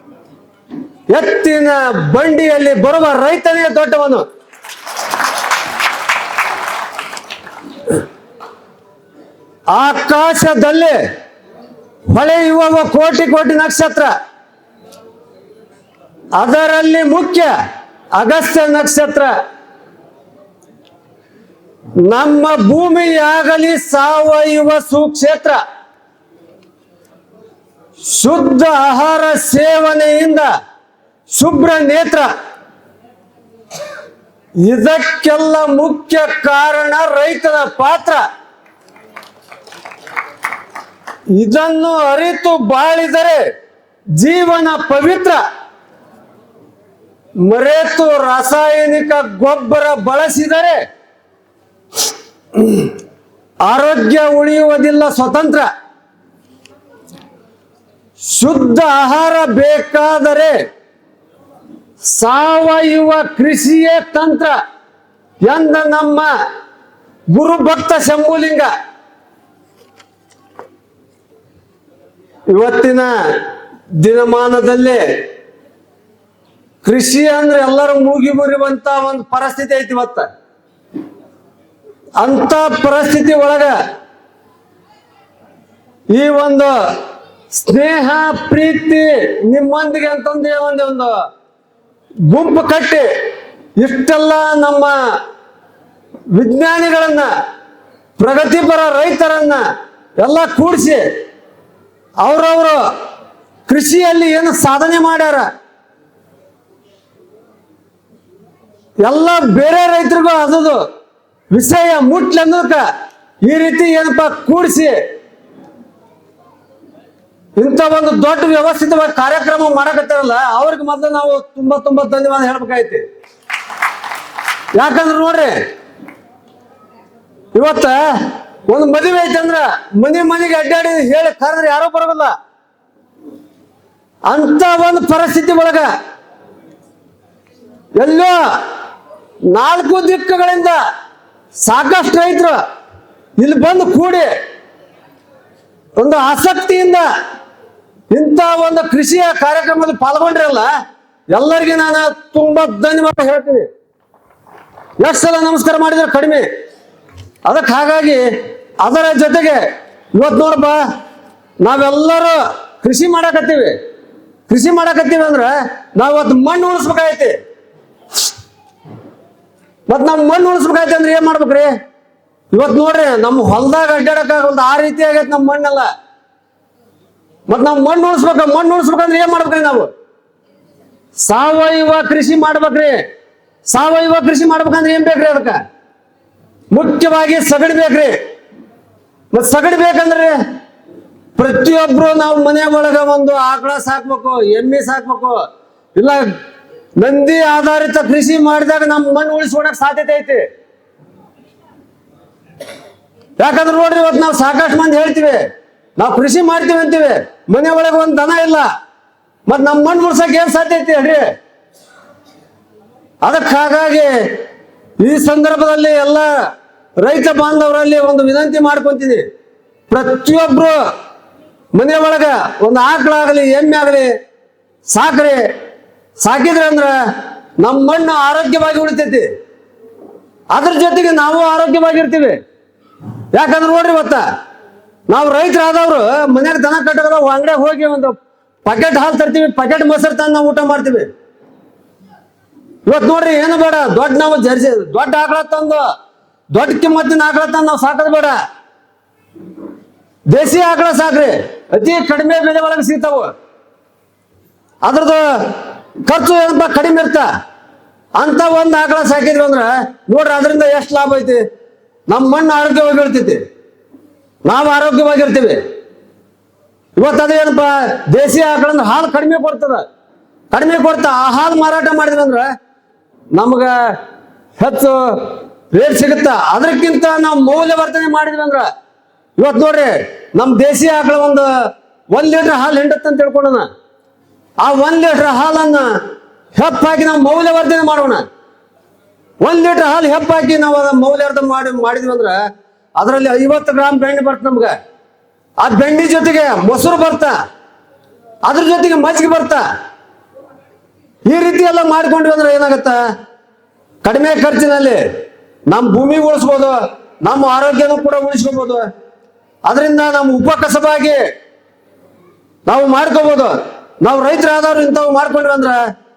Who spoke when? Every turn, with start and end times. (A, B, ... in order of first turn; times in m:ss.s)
0:01.1-0:04.3 A
0:09.7-0:11.1 A
0:12.1-0:14.1 A
0:16.3-0:17.6 A
0:18.1-0:19.4 A
0:22.0-0:25.6 A
0:28.0-0:30.5 A
0:31.3-0:32.3 A
0:34.6-0:38.2 A
0:41.3-0:43.5 A
0:44.2-0:45.4 A
0:47.4-0:50.9 A
0:52.5-0:52.9 A
0:53.6-0:55.7 A
0:58.2-1:00.7 A
1:02.0-1:04.6 A
1:05.4-1:06.3 A
1:07.3-1:08.7 A
1:12.5-1:15.3 A
1:16.8-1:20.3 A
1:22.2-1:23.8 A
1:26.1-1:26.9 A
1:27.5-1:31.2 A
1:32.2-1:33.1 A
1:33.8-1:35.2 A
1:36.3-1:37.3 A
1:38.2-1:39.6 A
1:40.2-1:41.1 A
1:42.2-1:42.9 A
1:43.7-1:45.5 A
1:49.0-1:50.9 A
1:51.5-1:52.9 A
1:53.4-1:55.0 A
1:57.6-2:03.0 A
2:04.7-2:05.7 A
2:07.5-2:12.3 A
2:14.3-2:15.9 A
2:18.0-2:18.6 A
2:19.5-2:20.8 A
2:21.6-2:22.6 A
2:23.4-2:24.4 A
2:26.0-2:27.1 A
2:28.1-2:30.7 A
2:31.3-2:33.7 A
2:35.0-2:36.5 A
2:37.4-2:40.9 A
2:41.6-2:43.8 A
2:44.5-2:47.4 A
2:49.9-2:51.7 A
2:52.5-2:55.9 A
2:57.5-2:59.9 A
3:01.2-3:03.1 A
3:03.7-3:05.6 A
3:06.7-3:08.2 A
3:09.3-3:10.4 A
3:11.4-3:16.4 A
3:17.0-3:20.5 A
3:23.4-3:28.7 A
3:29.5-3:31.3 A
3:33.2-3:34.3 A
3:35.0-3:36.4 A
3:37.0-3:39.3 A
3:39.9-3:40.8 A
3:41.7-3:44.1 A
3:44.9-3:45.5 A
3:46.2-3:49.3 A
3:50.5-3:52.4 A
3:53.3-3:54.2 A
3:55.1-4:01.1 A
4:02.8-4:05.9 A
4:06.5-4:08.4 A
4:10.3-4:13.3 A
4:14.8-4:17.3 A
4:18.2-4:21.4 A
4:22.1-4:23.4 A
4:24.4-4:25.6 A
4:27.0-4:29.8 A
4:30.5-4:32.5 A
4:33.3-4:34.0 A
4:34.6-4:38.7 A
4:39.4-4:43.7 A
4:44.6-4:46.0 A
4:46.6-4:48.2 A
4:49.4-4:52.4 A
4:53.0-4:54.8 A
4:55.6-4:57.4 A
4:58.4-4:59.6 A
5:01.3-5:03.0 A
5:04.0-5:05.0 A
5:05.7-5:08.9 A
5:09.6-5:11.3 A
5:12.7-5:15.9 A